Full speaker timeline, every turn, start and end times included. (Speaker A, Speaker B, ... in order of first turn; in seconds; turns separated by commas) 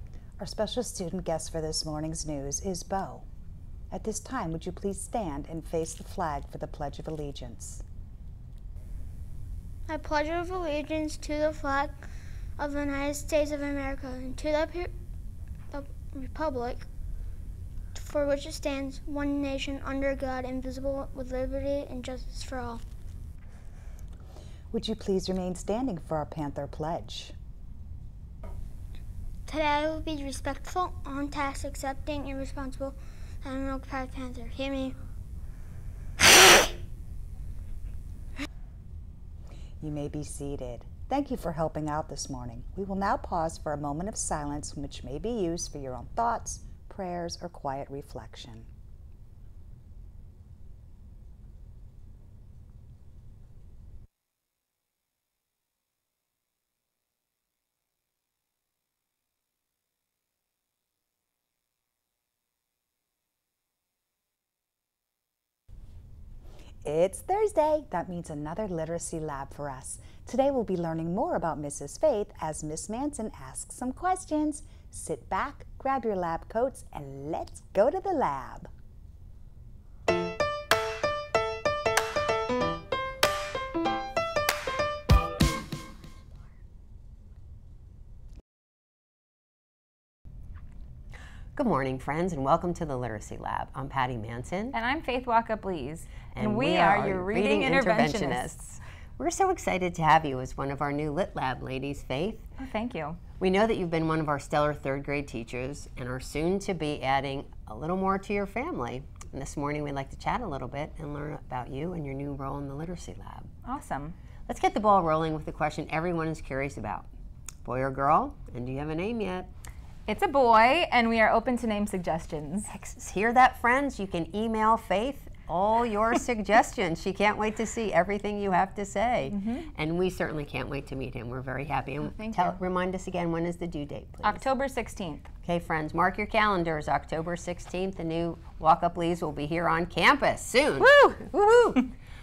Speaker A: 0.4-3.2, Speaker A: 3.9-7.8, Speaker B: 9.9-11.9, Speaker B: 12.6-14.9, Speaker B: 15.7-16.8, Speaker B: 17.9-22.8, Speaker A: 24.7-27.3, Speaker B: 29.5-35.0, Speaker A: 39.8-48.7, Speaker A: 66.8-78.7, Speaker C: 91.5-94.7, Speaker D: 94.7-98.8, Speaker C: 96.3-98.5, Speaker C: 99.2-102.5, Speaker D: 102.6-103.2, Speaker C: 103.4-113.5, Speaker D: 113.6-114.1, Speaker C: 114.5-117.1, Speaker C: 117.6-119.5, Speaker D: 120.1-122.7, Speaker C: 122.7-134.4, Speaker D: 129.3-129.7, Speaker D: 132.1-132.6, Speaker D: 134.2-135.3, Speaker C: 135.4-141.8, Speaker D: 140.8-141.2